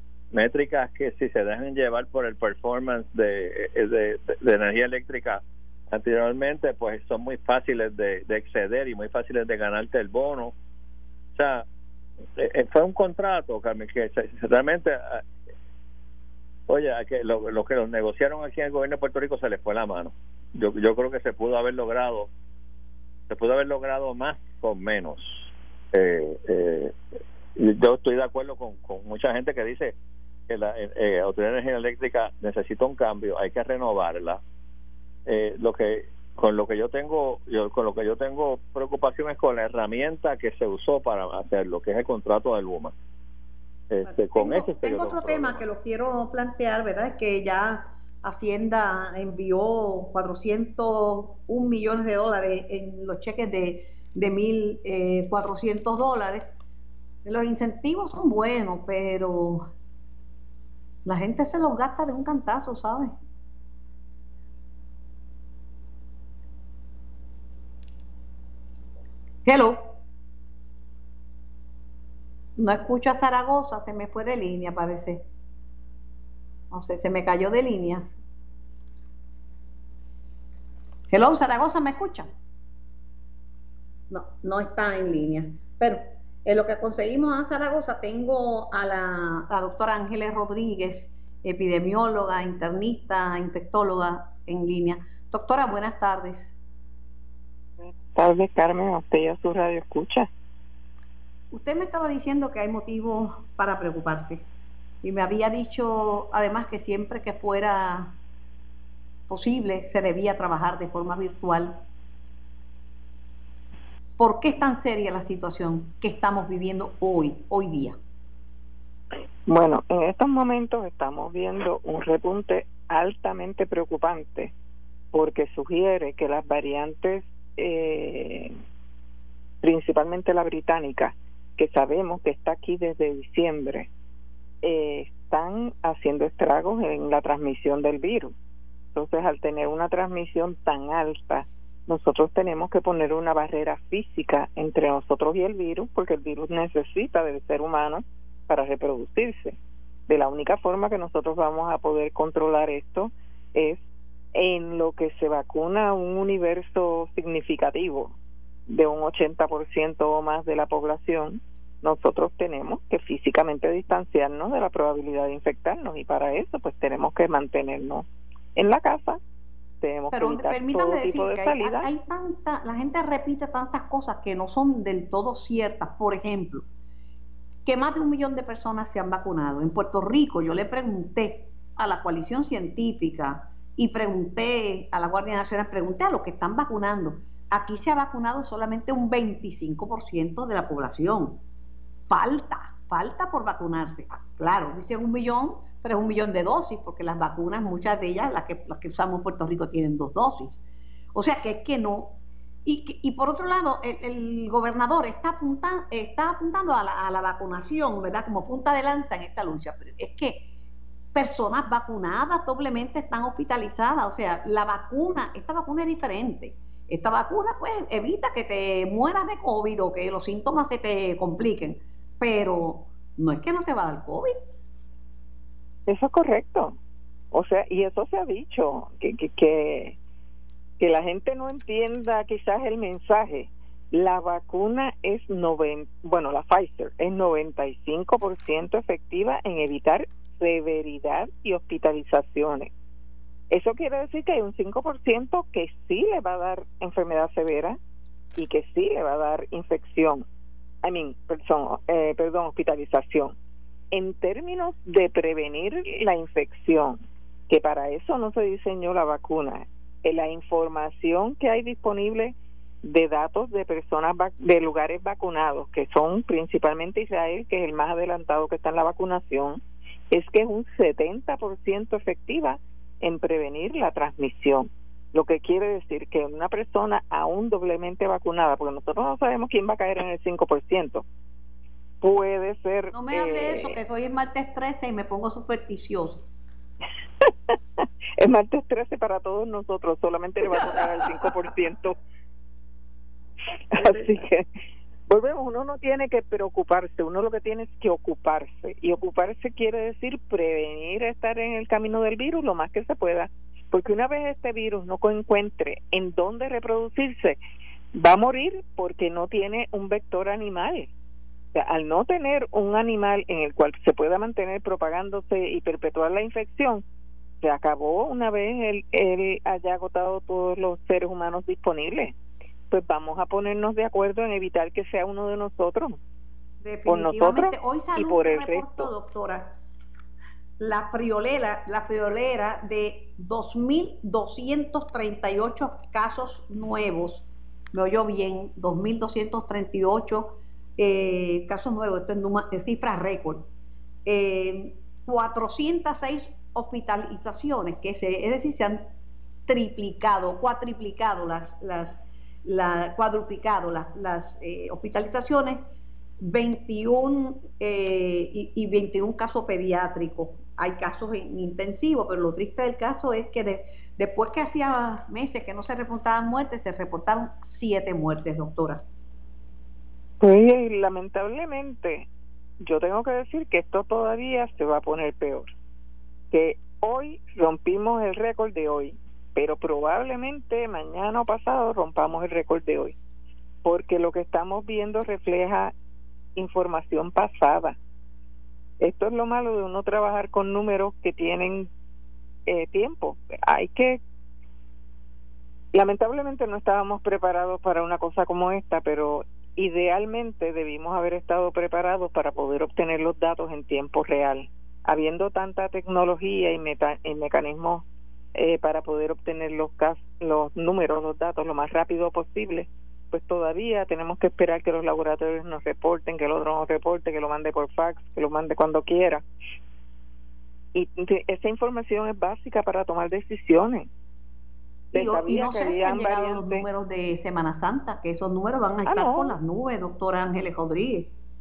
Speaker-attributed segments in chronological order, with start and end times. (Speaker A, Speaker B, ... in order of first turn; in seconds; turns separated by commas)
Speaker A: 0.3-10.5, Speaker A: 11.3-11.6, Speaker A: 12.4-15.2, Speaker A: 16.7-22.3, Speaker A: 23.3-27.0, Speaker A: 27.6-29.9, Speaker A: 30.5-34.4, Speaker A: 35.2-42.9, Speaker A: 43.9-45.6, Speaker B: 44.0-56.5, Speaker B: 57.2-59.7, Speaker B: 61.0-63.1, Speaker B: 69.4-70.0, Speaker B: 72.6-75.3, Speaker B: 76.7-78.1, Speaker B: 81.1-82.3, Speaker B: 84.1-96.5, Speaker C: 97.8-100.3, Speaker B: 101.5-104.4, Speaker B: 105.0-108.2, Speaker B: 109.3-111.8, Speaker B: 114.2-118.0, Speaker C: 119.5-124.5, Speaker C: 125.1-128.5, Speaker C: 129.6-133.9, Speaker C: 134.6-138.3, Speaker C: 138.9-149.6, Speaker C: 150.1-153.8, Speaker C: 154.3-158.1, Speaker C: 158.7-169.2, Speaker C: 169.8-171.9, Speaker B: 170.1-176.7, Speaker B: 177.7-191.4, Speaker B: 192.1-200.6, Speaker B: 201.1-210.5, Speaker B: 211.1-224.3, Speaker C: 225.9-226.7, Speaker C: 227.3-229.9, Speaker C: 230.8-242.7, Speaker C: 243.5-247.8, Speaker C: 248.3-250.2, Speaker C: 250.8-253.3, Speaker C: 253.9-281.0, Speaker C: 282.0-283.8, Speaker B: 282.9-286.2, Speaker C: 287.2-291.9, Speaker C: 293.7-294.4, Speaker B: 293.8-294.2, Speaker C: 295.1-307.4, Speaker C: 307.9-310.9, Speaker C: 311.5-316.8, Speaker C: 317.4-322.1, Speaker C: 322.7-326.0, Speaker B: 326.6-329.6, Speaker C: 326.9-328.9, Speaker B: 330.6-343.5, Speaker B: 344.1-348.9, Speaker B: 349.5-355.6, Speaker B: 356.2-368.8, Speaker C: 370.2-372.1, Speaker C: 372.6-375.5, Speaker C: 376.3-382.9, Speaker C: 383.6-385.7, Speaker C: 386.4-387.8, Speaker C: 388.8-391.7, Speaker C: 392.4-394.0, Speaker C: 395.7-419.2, Speaker C: 420.7-423.9, Speaker C: 424.9-426.6, Speaker B: 424.9-431.1, Speaker C: 428.9-429.4